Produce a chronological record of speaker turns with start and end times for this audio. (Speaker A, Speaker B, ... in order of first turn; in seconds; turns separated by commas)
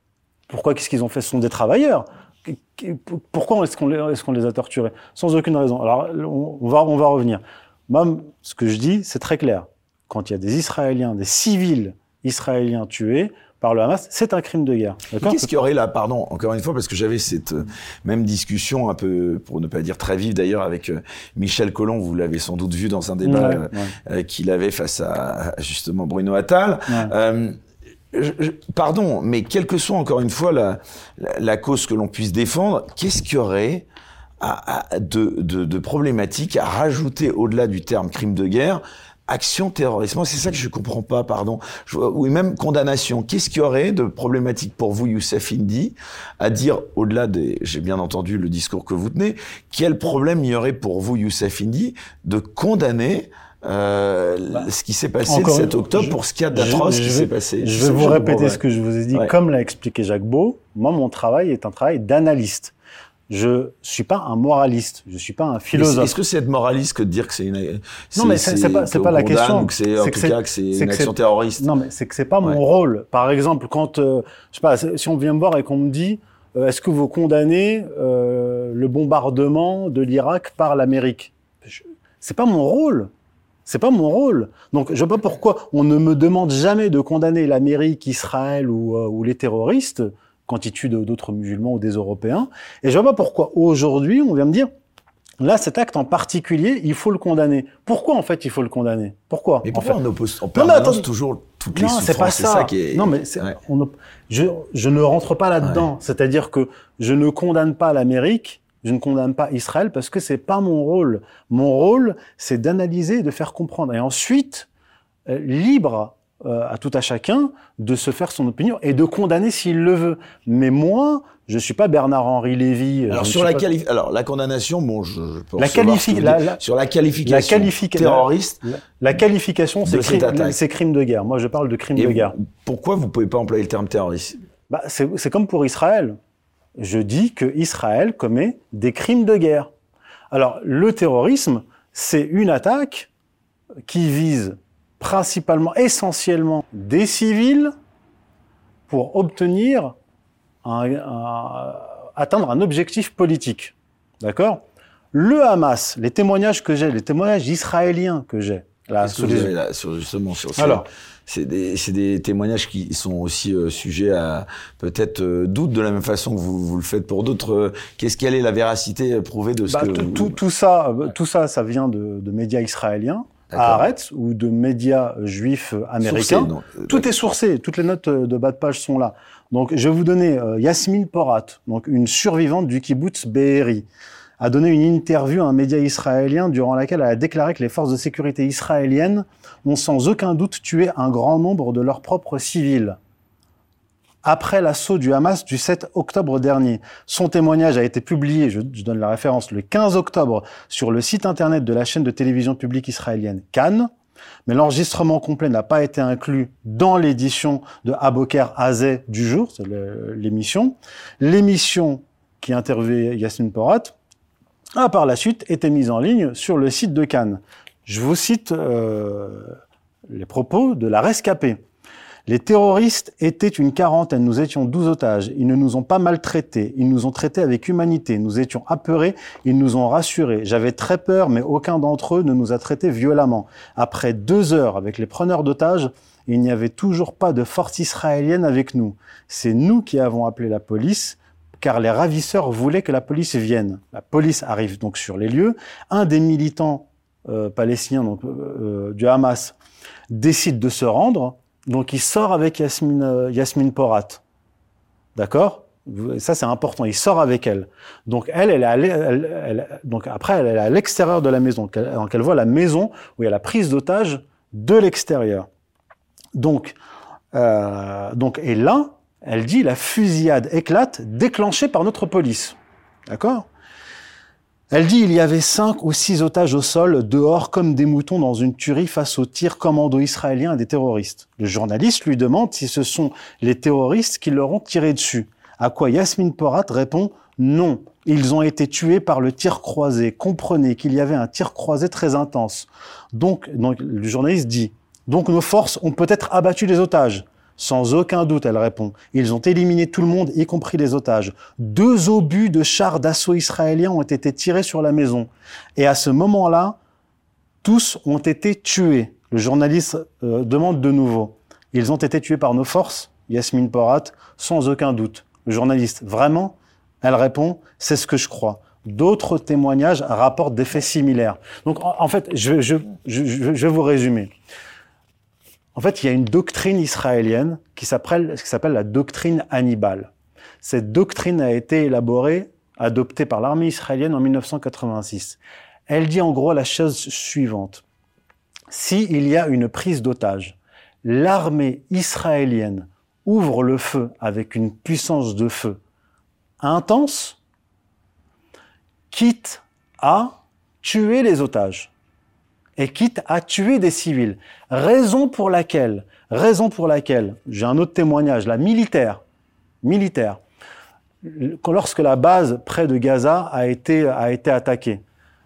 Speaker A: 0.5-15.5, Speaker B: 15.2-27.6, Speaker A: 23.2-23.9, Speaker B: 28.1-33.9, Speaker B: 34.4-58.6, Speaker A: 55.2-62.7, Speaker A: 63.3-66.1, Speaker B: 65.7-71.7, Speaker A: 68.2-83.1, Speaker A: 83.7-94.7, Speaker A: 95.4-100.0, Speaker B: 99.6-103.5, Speaker A: 100.5-101.1, Speaker A: 101.7-114.7, Speaker A: 115.3-123.7, Speaker B: 123.1-128.6, Speaker A: 125.6-126.6, Speaker A: 127.2-132.3, Speaker B: 129.8-130.6, Speaker B: 131.9-134.4, Speaker A: 134.7-136.2, Speaker A: 136.8-139.7, Speaker A: 140.3-143.1, Speaker A: 143.9-147.7, Speaker A: 148.9-149.9, Speaker A: 150.6-159.5, Speaker B: 159.0-170.4, Speaker A: 160.6-160.8, Speaker A: 169.7-183.9, Speaker B: 173.5-173.9, Speaker B: 176.0-177.1, Speaker A: 184.4-193.0, Speaker A: 194.2-203.9, Speaker A: 204.5-213.9, Speaker A: 214.7-221.6, Speaker A: 222.3-249.6, Speaker A: 250.1-254.2, Speaker A: 255.2-265.5, Speaker A: 266.3-266.8, Speaker A: 267.3-272.6, Speaker A: 273.1-273.5, Speaker A: 274.7-306.8, Speaker A: 307.6-324.3, Speaker A: 325.7-330.1, Speaker A: 330.6-337.8, Speaker A: 338.7-345.8, Speaker A: 346.6-347.4, Speaker A: 349.1-351.9, Speaker A: 352.8-359.2, Speaker A: 359.8-360.4, Speaker A: 361.2-365.0